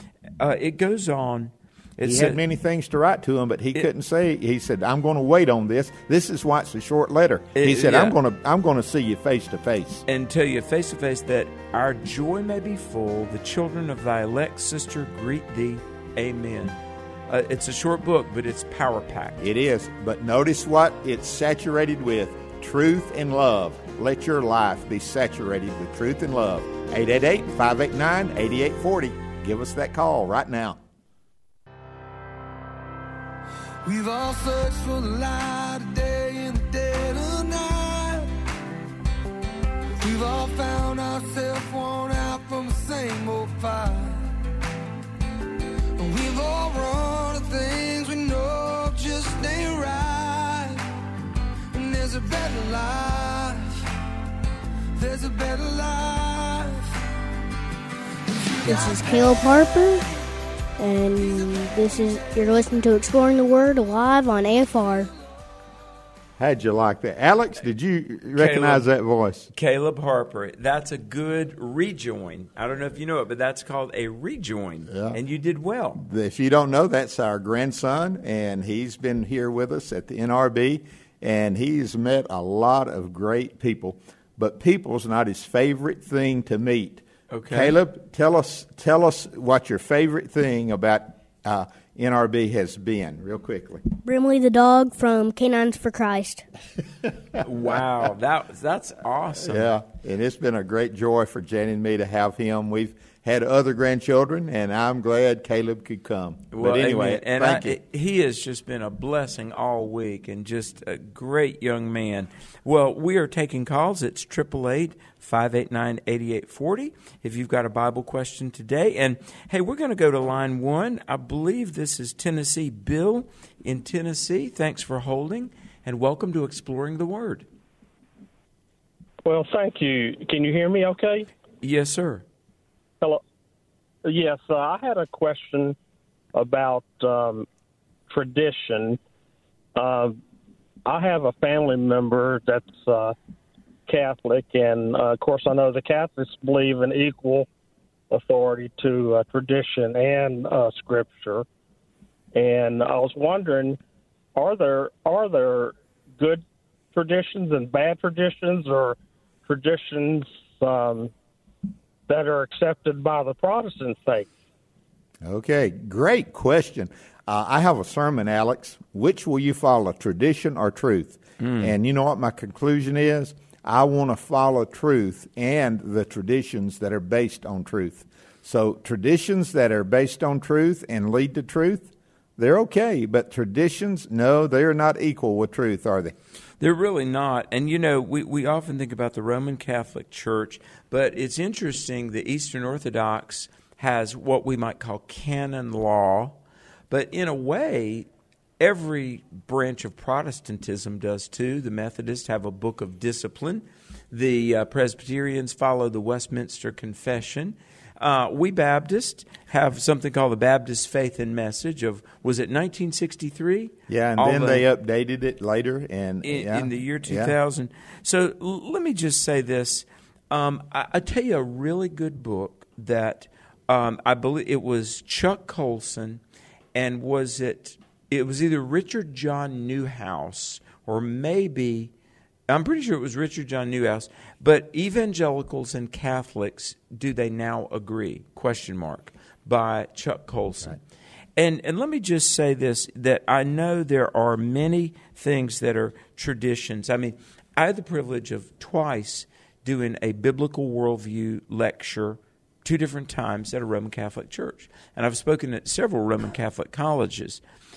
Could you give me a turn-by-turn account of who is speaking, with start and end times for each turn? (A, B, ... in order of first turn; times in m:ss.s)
0:00.4-0:02.4 A
0:02.0-0:10.0 B
0:07.6-0:08.2 A
0:10.1-0:19.4 A
0:19.4-0:30.8 B
0:33.8-0:38.3 C
0:40.0-0:44.3 C
0:46.0-0:50.8 C
0:51.7-0:53.8 C
0:55.0-0:56.9 C
0:58.3-0:59.5 C
0:58.7-1:00.0 D
1:00.8-1:05.1 D
1:02.3-1:02.6 C
1:06.4-1:09.5 B
1:08.4-1:08.9 A
1:09.5-1:16.0 A
1:14.9-1:15.2 B
1:16.0-1:34.0 B
1:27.3-1:27.8 A
1:34.0-1:36.5 D
1:37.4-1:39.8 A
1:39.4-1:47.8 B
1:46.5-2:07.5 A
2:09.2-2:11.3 E
2:11.6-2:12.2 A
2:14.0-2:15.8 E
2:16.4-2:17.5 E
2:18.1-2:19.0 E
2:19.8-2:20.2 E
2:20.9-2:23.2 E
2:23.9-2:27.5 E
2:28.1-2:31.5 E
2:32.3-2:33.8 E
2:34.4-2:41.1 E
2:42.1-2:44.3 E
2:45.2-3:06.2 B
2:51.4-2:51.7 A
3:06.6-3:16.4 A
3:16.9-3:18.1 A
3:18.6-3:34.6 A
3:33.9-3:37.3 B
3:36.2-3:46.2 A
3:46.8-3:51.9 A
3:52.5-4:00.8 A
4:01.4-4:17.4 A